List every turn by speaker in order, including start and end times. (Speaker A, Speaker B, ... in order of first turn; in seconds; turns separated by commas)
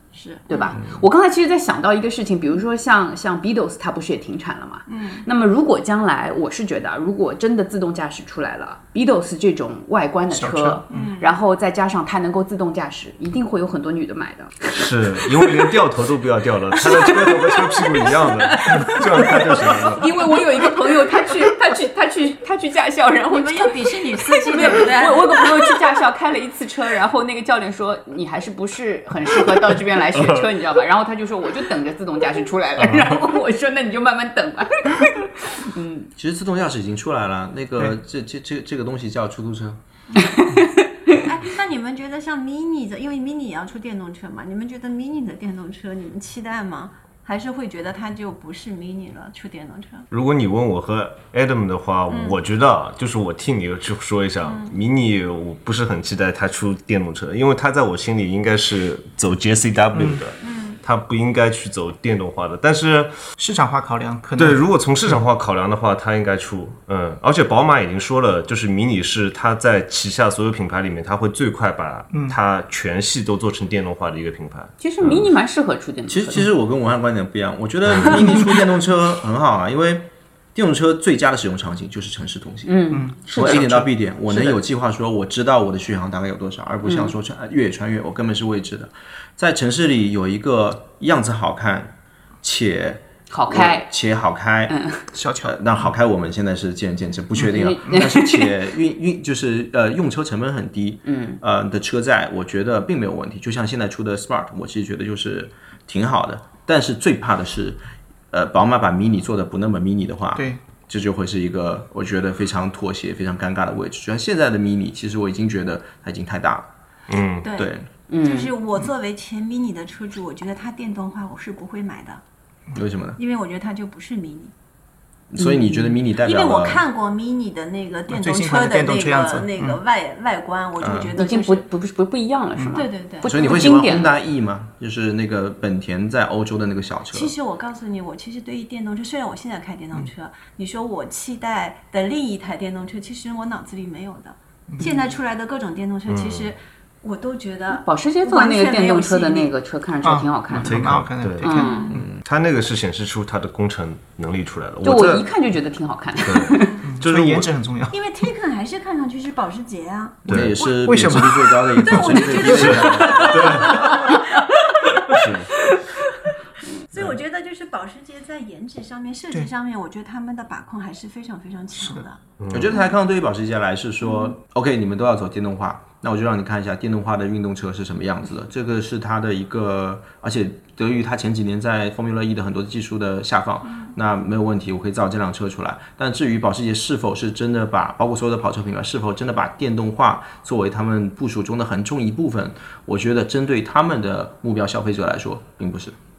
Speaker A: 0.1-0.8, Speaker B: 0.5-15.7, Speaker A: 4.9-5.2, Speaker C: 10.3-11.1, Speaker A: 10.9-11.3, Speaker D: 14.7-20.1, Speaker B: 16.8-36.1, Speaker A: 23.3-25.8, Speaker D: 30.1-30.4, Speaker E: 36.1-39.8, Speaker B: 40.2-41.1, Speaker A: 41.1-50.0, Speaker D: 50.1-63.1, Speaker A: 52.1-52.4, Speaker A: 54.4-54.7, Speaker C: 59.9-60.2, Speaker A: 60.4-60.8, Speaker C: 63.4-65.1, Speaker D: 64.3-75.3, Speaker C: 72.1-72.4, Speaker B: 74.8-76.4, Speaker E: 76.1-94.7, Speaker B: 82.7-84.6, Speaker C: 82.9-83.9, Speaker B: 86.8-87.1, Speaker B: 93.3-93.9, Speaker B: 94.7-95.0, Speaker C: 95.1-95.6, Speaker E: 95.4-107.8, Speaker B: 97.4-98.5, Speaker B: 101.0-101.4, Speaker E: 108.3-116.7, Speaker C: 110.3-110.6, Speaker D: 117.1-117.5, Speaker A: 117.4-122.2, Speaker E: 117.5-117.9, Speaker B: 118.1-118.5, Speaker E: 122.7-123.2, Speaker A: 123.2-124.5, Speaker E: 125.3-126.8, Speaker A: 126.1-131.6, Speaker C: 128.1-129.8, Speaker E: 130.8-131.1, Speaker B: 131.1-134.1, Speaker A: 132.7-133.6, Speaker E: 133.2-137.3, Speaker A: 137.1-149.5, Speaker D: 146.1-146.5, Speaker B: 147.7-150.8, Speaker C: 150.0-152.1, Speaker D: 150.6-155.3, Speaker B: 151.4-151.9, Speaker A: 151.5-152.0, Speaker E: 151.9-152.2, Speaker B: 154.8-156.8, Speaker D: 156.2-157.5, Speaker C: 156.8-158.0, Speaker A: 157.9-160.5, Speaker E: 160.2-163.7, Speaker D: 160.3-160.5, Speaker C: 160.4-163.3, Speaker A: 161.7-164.2, Speaker D: 162.4-164.0, Speaker B: 163.3-164.8, Speaker D: 165.0-165.5, Speaker B: 165.6-166.1, Speaker A: 166.9-172.2, Speaker C: 171.8-172.0, Speaker D: 172.4-172.8, Speaker E: 172.5-195.9